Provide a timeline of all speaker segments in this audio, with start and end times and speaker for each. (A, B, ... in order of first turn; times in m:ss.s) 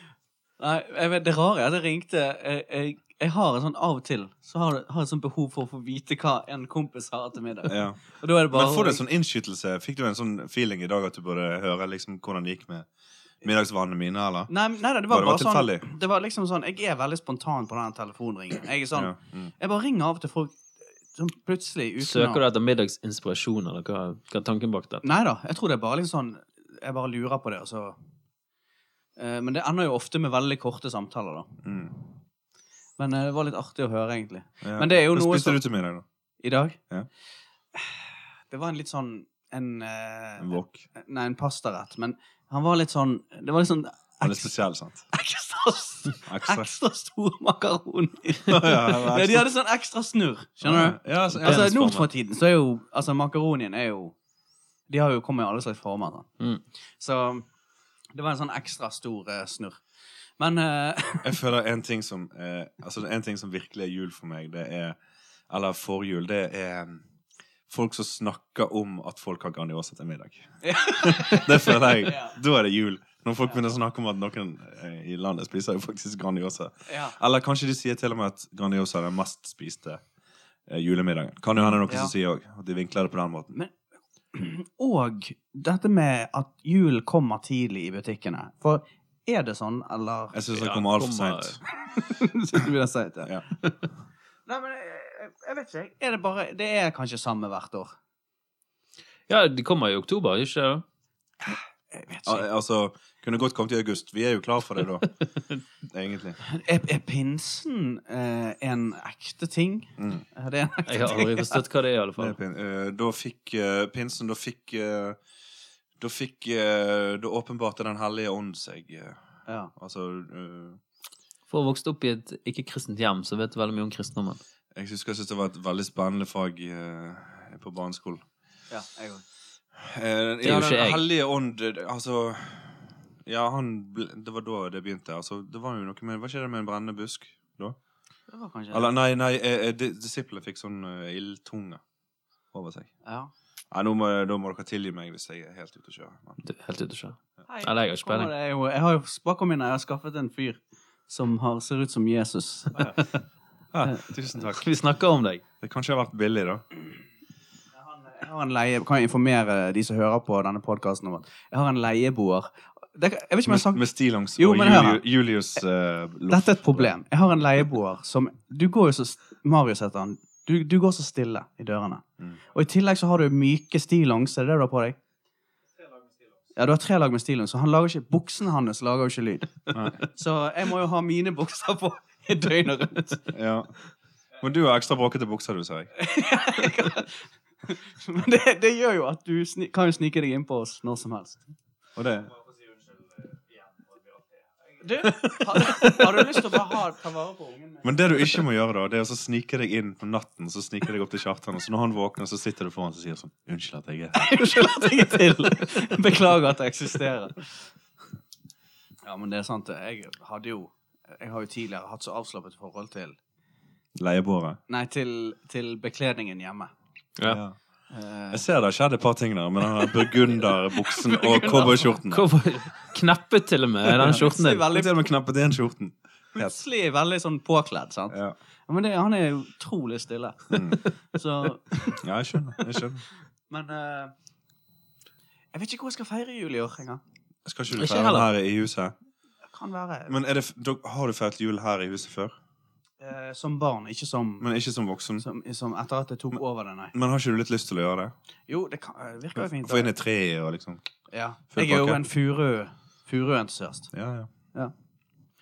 0:00.6-0:09.0 A
0:07.7-0:12.9 B
0:13.4-0:14.5 B
0:14.5-0:20.6 A
0:15.1-0:15.8 B
0:18.9-0:19.5 B
0:21.1-0:22.4 A
0:22.0-0:25.0 C
0:25.0-0:28.0 A
0:29.2-0:31.5 A
0:31.6-0:31.9 B
0:33.0-0:35.6 A
0:34.6-0:36.0 B
0:36.4-0:36.8 A
0:37.7-0:44.5 A
0:40.4-0:40.8 B
0:44.2-0:45.0 B
0:45.1-0:54.2 A
0:46.2-0:46.7 B
0:48.5-0:49.5 B
0:50.6-0:52.1 B
0:54.9-0:56.3 A
0:57.0-0:57.5 A
0:58.1-0:59.8 A
1:00.4-1:01.3 A
1:01.2-1:05.0 B
1:05.5-1:07.0 B
1:07.7-1:20.0 B
1:10.6-1:12.3 A
1:16.9-1:17.1 A
1:20.7-1:23.5 B
1:21.9-1:22.1 A
1:24.3-1:30.4 A
1:30.3-1:31.6 B
1:30.6-1:31.6 C
1:31.8-1:33.4 A
1:34.5-1:37.9 A
1:39.3-1:40.8 C
1:41.9-1:42.4 A
1:42.2-1:45.1 B
1:45.8-1:46.4 B
1:46.4-1:51.6 A
1:50.0-1:50.2 B
1:50.9-1:52.4 C
1:52.2-1:55.2 B
1:56.0-1:59.2 B
1:59.4-1:59.7 A
1:59.7-2:00.8 B
2:01.5-2:04.4 C
2:04.7-2:08.2 B
2:08.7-2:09.2 A
2:09.8-2:17.8 B
2:10.4-2:11.0 C
2:18.3-2:18.9 A
2:18.7-2:21.8 B
2:22.5-2:22.9 B
2:23.0-2:23.3 A
2:23.7-2:26.4 B
2:26.4-2:28.3 C
2:27.5-2:32.9 A
2:33.7-2:34.6 B
2:34.5-2:35.4 C
2:35.6-2:36.6 B
2:37.7-2:43.8 A
2:43.4-2:46.9 B
2:44.4-2:45.0 A
2:46.3-2:55.0 A
2:56.6-3:03.2 A
3:03.3-3:03.7 B
3:04.4-3:05.9 B
3:06.0-3:11.5 A
3:12.0-3:12.4 B
3:14.8-3:18.4 A
3:15.0-3:16.6 B
3:17.8-3:24.7 B
3:24.1-3:27.4 A
3:29.0-3:33.2 A
3:34.0-3:34.6 B
3:34.7-3:36.7 A
3:37.2-3:37.6 B
3:37.9-3:38.4 A
3:38.3-3:42.3 B
3:40.8-3:41.9 A
3:42.1-3:44.7 C
3:44.0-3:45.0 A
3:44.0-3:46.6 B
3:46.3-3:52.0 A
3:50.5-3:50.8 B
3:52.0-3:53.0 B
3:52.6-3:52.8 A
3:53.5-3:54.1 A
3:55.5-3:57.0 A
3:57.4-3:58.9 B
3:57.7-3:58.3 C
3:59.5-4:00.1 A
4:00.1-4:02.4 B
4:03.0-4:04.5 A
4:04.4-4:05.2 B
4:05.2-4:06.9 A
4:06.9-4:08.1 B
4:08.5-4:09.9 A
4:09.6-4:10.9 B
4:11.1-4:13.9 A
4:11.5-4:12.0 B
4:13.9-4:14.3 B